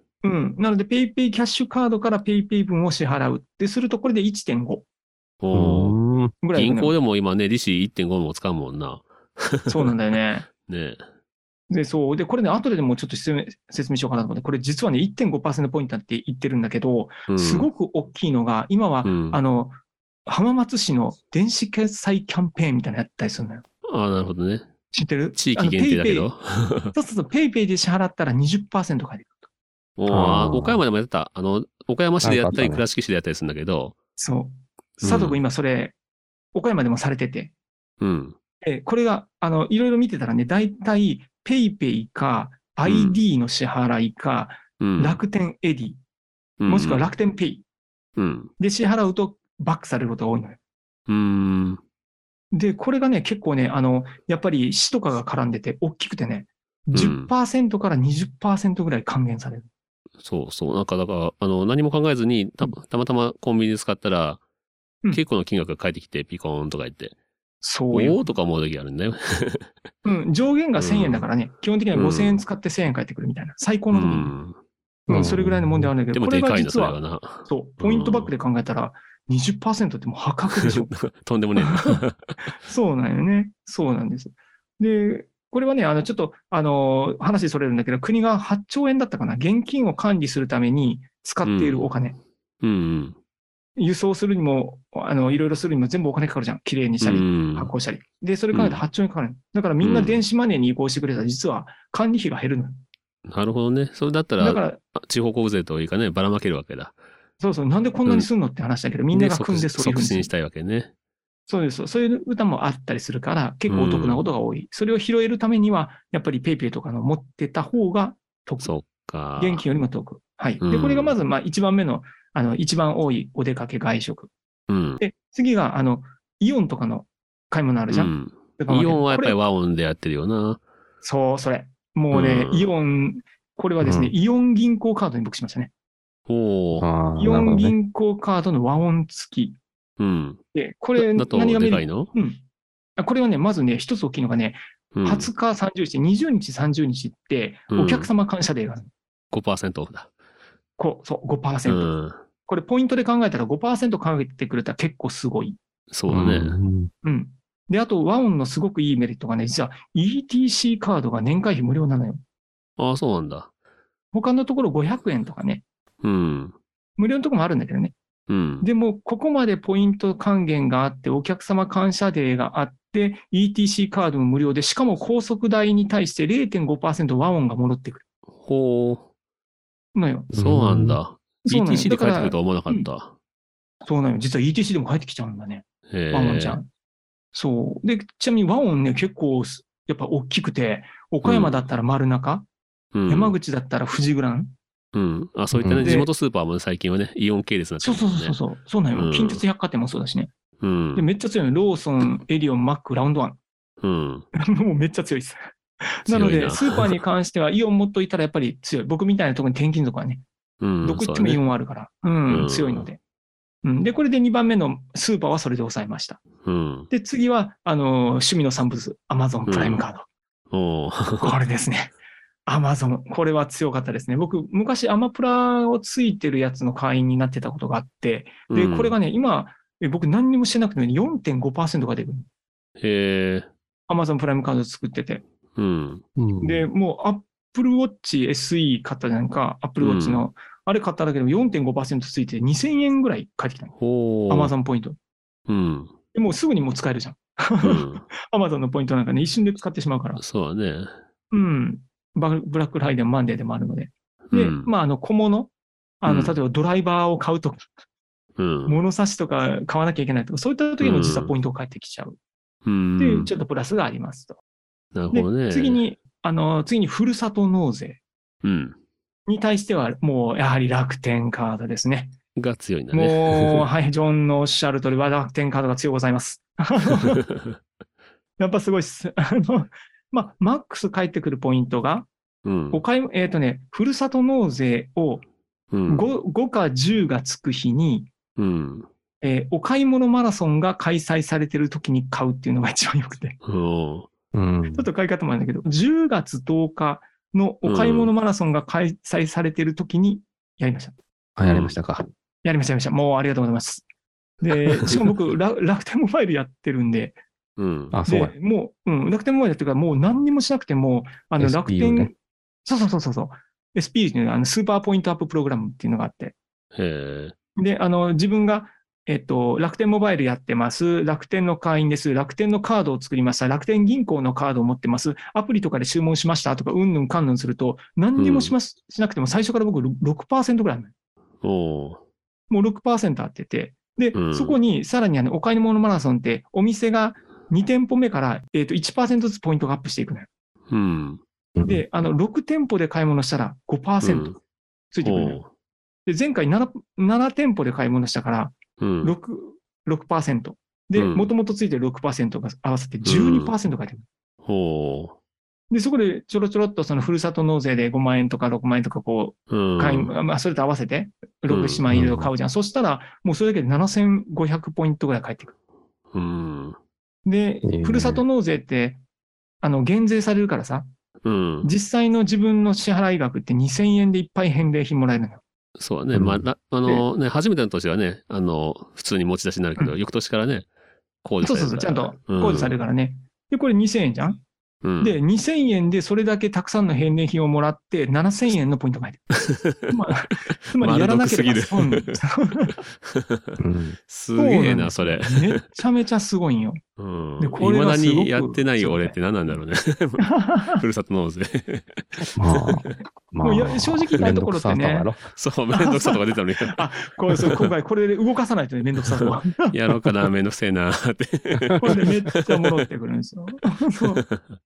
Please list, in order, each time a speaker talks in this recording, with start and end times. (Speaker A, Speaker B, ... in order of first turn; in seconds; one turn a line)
Speaker A: 0.2-4.8
Speaker B: 5.4-6.0
Speaker C: 5.5-6.3
Speaker A: 6.4-6.9
Speaker B: 6.5-9.9
Speaker A: 9.7-10.5
Speaker B: 10.6-11.0
Speaker A: 11.7-23.6
Speaker B: 17.3-17.7
Speaker B: 19.0-19.4
Speaker B: 23.9-24.7
Speaker A: 24.9-26.3
Speaker B: 25.4-26.9
Speaker A: 26.9-29.4
Speaker B: 30.0-34.0
Speaker C: 30.1-30.8
Speaker C: 32.2-32.8
Speaker A: 34.2-35.9
Speaker B: 35.0-35.4
Speaker A: 36.5-37.5
Speaker B: 38.0-38.4
Speaker A: 38.6-46.0
Speaker B: 42.9-43.2
Speaker B: 44.8-45.2
Speaker B: 46.6-47.1
Speaker A: 46.7-47.6
Speaker B: 48.2-48.5
Speaker A: 48.6-50.6
Speaker B: 51.1-51.8
Speaker A: 52.5-59.7
Speaker B: 56.9-57.3
Speaker B: 60.2-64.4
Speaker B: 65.1-67.2
Speaker A: 67.6-68.2
Speaker B: 67.9-69.7
Speaker A: 70.0-74.3
Speaker B: 70.8-71.3
Speaker B: 71.9-72.4
Speaker B: 73.9-74.6
Speaker A: 75.1-80.9
Speaker C: 75.1-75.9
Speaker B: 76.1-78.3
Speaker B: 80.5-82.3
Speaker A: 81.6-82.0
Speaker A: 82.6-92.2
Speaker B: 91.4-91.9
Speaker B: 92.6-93.2
Speaker A: 93.8-102.8
Speaker B: 97.0-97.7
Speaker B: 98.5-98.8
Speaker B: 99.8-100.2
Speaker B: 103.3-107.0
Speaker A: 104.4-104.8
Speaker A: 107.4-110.3
Speaker B: 109.1-110.9
Speaker A: 111.5-118.7
Speaker B: 113.7-114.2
Speaker B: 118.6-119.6
Speaker A: 119.4-124.3
Speaker B: 120.6-121.1
Speaker B: 124.7-125.0
Speaker A: 125.0-129.4
Speaker B: 127.9-130.6
Speaker A: 131.0-135.7
Speaker B: 132.1-132.7
Speaker C: 133.8-134.1
Speaker B: 136.3-136.9
Speaker C: 136.8-137.8
Speaker A: 137.2-139.6
Speaker B: 140.0-140.4
Speaker A: 140.5-142.4
Speaker B: 141.0-142.1
Speaker A: 143.0-148.9
Speaker B: 144.9-145.3
Speaker B: 147.7-148.1
Speaker B: 149.3-150.1
Speaker A: 150.8-151.9
Speaker B: 151.7-152.2
Speaker A: 152.5-155.6
Speaker B: 155.9-156.6
Speaker C: 156.1-156.9
Speaker A: 157.0-162.2
Speaker B: 162.8-163.5
Speaker A: 164.1-165.6
Speaker B: 166.0-166.6
Speaker A: 167.0-167.9
Speaker B: 168.3-168.7
Speaker A: 168.6-178.0
Speaker B: 178.4-179.1
Speaker A: 179.9-180.3
Speaker C: 180.3-181.0
Speaker B: 180.3-183.1
Speaker A: 181.5-182.9
Speaker A: 183.8-186.7
Speaker B: 185.9-186.6
Speaker A: 187.3-192.5
Speaker B: 191.2-191.6
Speaker B: 192.9-193.3
Speaker A: 193.1-194.5
Speaker B: 194.9-198.4
Speaker C: 195.5-195.9
Speaker A: 195.8-196.1
Speaker A: 197.8-200.3
Speaker B: 198.9-199.4
Speaker B: 200.6-201.1
Speaker A: 201.0-203.4
Speaker B: 203.8-204.3
Speaker A: 204.4-210.2
Speaker B: 206.1-207.0
Speaker B: 210.6-211.4
Speaker A: 210.8-213.0
Speaker B: 212.3-212.9
Speaker A: 213.6-216.2
Speaker B: 216.4-216.9
Speaker A: 216.9-220.1
Speaker B: 219.5-219.8
Speaker B: 220.5-221.3
Speaker A: 221.2-221.9
Speaker A: 222.5-232.3
Speaker B: 228.5-228.9
Speaker B: 232.8-233.5
Speaker A: 233.9-235.2
Speaker B: 235.6-236.0
Speaker C: 236.2-236.7
Speaker A: 236.4-243.7
Speaker B: 239.8-240.2
Speaker B: 243.8-244.5
Speaker A: 244.3-245.0
Speaker B: 245.5-245.9
Speaker A: 246.1-250.2
Speaker B: 247.6-248.1
Speaker B: 250.2-250.9
Speaker A: 251.3-255.5
Speaker B: 254.3-254.7
Speaker A: 256.0-257.7
Speaker B: 256.1-256.4
Speaker B: 258.4-258.8
Speaker A: 258.7-262.2
Speaker B: 260.8-261.3
Speaker B: 262.6-263.3
Speaker A: 263.0-264.4
Speaker B: 264.9-265.8
Speaker A: 265.1-268.0
Speaker B: 268.4-268.8
Speaker A: 269.3-272.1
Speaker B: 272.4-273.7
Speaker A: 272.9-277.2
Speaker A: 278.4-282.1
Speaker B: 282.4-282.8
Speaker A: 282.7-285.3
Speaker B: 285.7-286.1
Speaker A: 285.9-288.1
Speaker B: 288.4-288.9
Speaker A: 289.2-293.4
Speaker B: 293.4-294.1
Speaker C: 294.3-294.9
Speaker A: 294.7-300.9
Speaker B: 297.6-298.1
Speaker C: 301.4-302.1
Speaker B: 301.4-301.8
Speaker A: 302.4-303.9
Speaker A: 304.4-307.2
Speaker B: 307.6-308.0
Speaker C: 307.9-308.3
Speaker A: 308.1-316.4
Speaker C: 311.4-312.1
Speaker B: 316.7-317.4
Speaker A: 317.6-330.9
Speaker B: 328.2-328.5
Speaker B: 331.4-332.0
Speaker A: 332.5-340.3
Speaker B: 334.1-334.6
Speaker B: 340.7-341.2
Speaker C: 341.6-341.8
Speaker A: 341.6-344.3
Speaker B: 344.0-344.4
Speaker A: 344.9-345.4
Speaker B: 345.0-345.5
Speaker A: 346.1-354.0
Speaker B: 348.8-349.1
Speaker B: 350.9-351.3
Speaker B: 353.1-353.5
Speaker B: 354.4-355.2
Speaker A: 355.7-365.5
Speaker B: 359.5-360.1
Speaker B: 361.5-361.8
Speaker C: 361.9-362.3
Speaker B: 366.1-366.8
Speaker A: 367.2-369.0
Speaker C: 367.6-368.2
Speaker A: 369.6-370.9
Speaker B: 371.2-371.7
Speaker A: 371.6-375.4
Speaker B: 375.8-380.7
Speaker C: 376.1-376.4
Speaker B: 381.2-382.7
Speaker A: 381.4-384.4
Speaker B: 384.8-385.2
Speaker A: 385.0-392.8
Speaker B: 389.4-389.9
Speaker B: 390.7-392.2
Speaker B: 393.1-395.6
Speaker C: 393.6-394.0
Speaker A: 394.4-396.8
Speaker B: 397.0-402.8
Speaker A: 397.4-399.2
Speaker A: 400.2-400.8
Speaker C: 402.4-405.3
Speaker A: 403.4-405.1
Speaker B: 405.3-407.7
Speaker A: 405.7-409.8
Speaker B: 409.2-412.8
Speaker A: 411.8-414.2